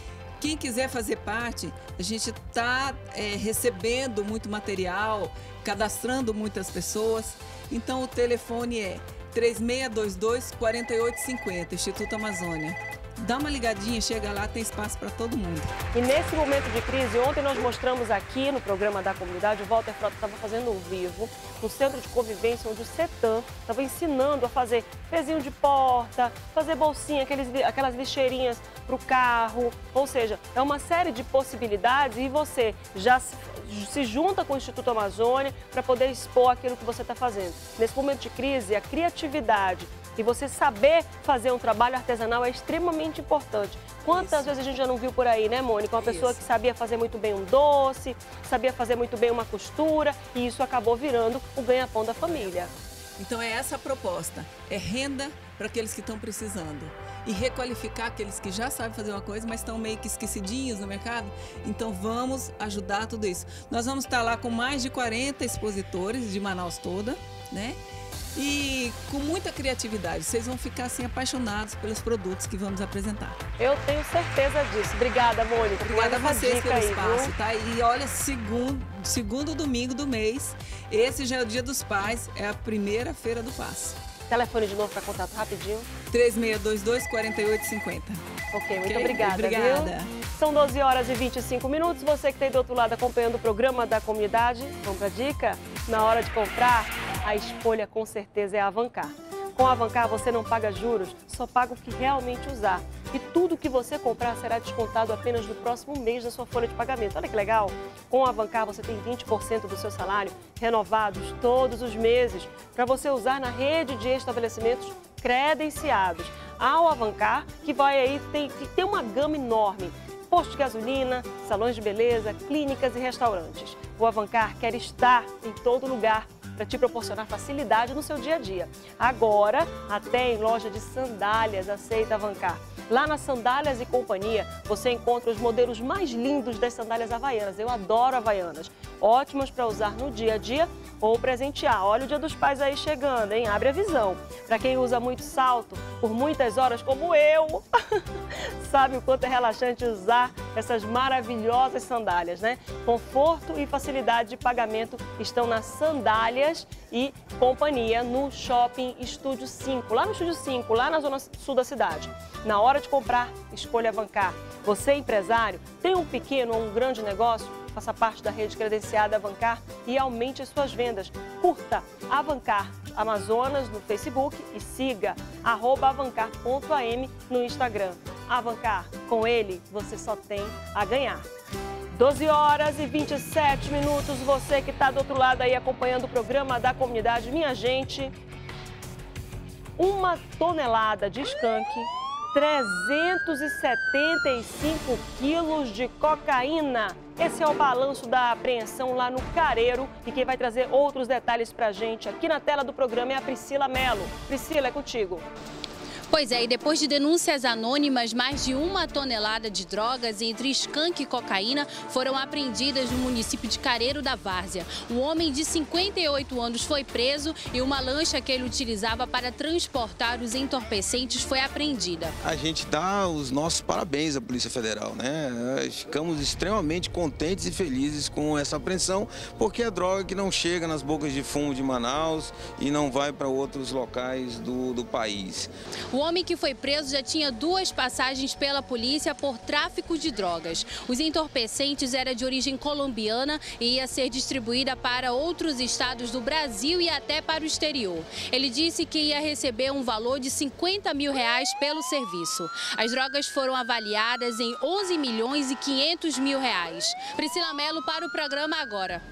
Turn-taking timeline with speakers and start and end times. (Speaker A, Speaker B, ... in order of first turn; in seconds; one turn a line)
Speaker A: 0.4-15.7
Speaker B: 15.9-52.7
Speaker A: 44.1-44.5
Speaker A: 46.0-46.4
Speaker A: 53.2-67.8
Speaker A: 68.3-73.4
Speaker B: 73.6-77.3
Speaker A: 75.8-84.0
Speaker B: 84.3-85.9
Speaker A: 86.1-88.2
Speaker B: 88.5-181.3
Speaker A: 88.8-90.1
Speaker B: 181.9-188.1
Speaker B: 189.8-205.2
Speaker C: 206.1-222.2
Speaker D: 222.2-235.5
Speaker C: 235.9-259.0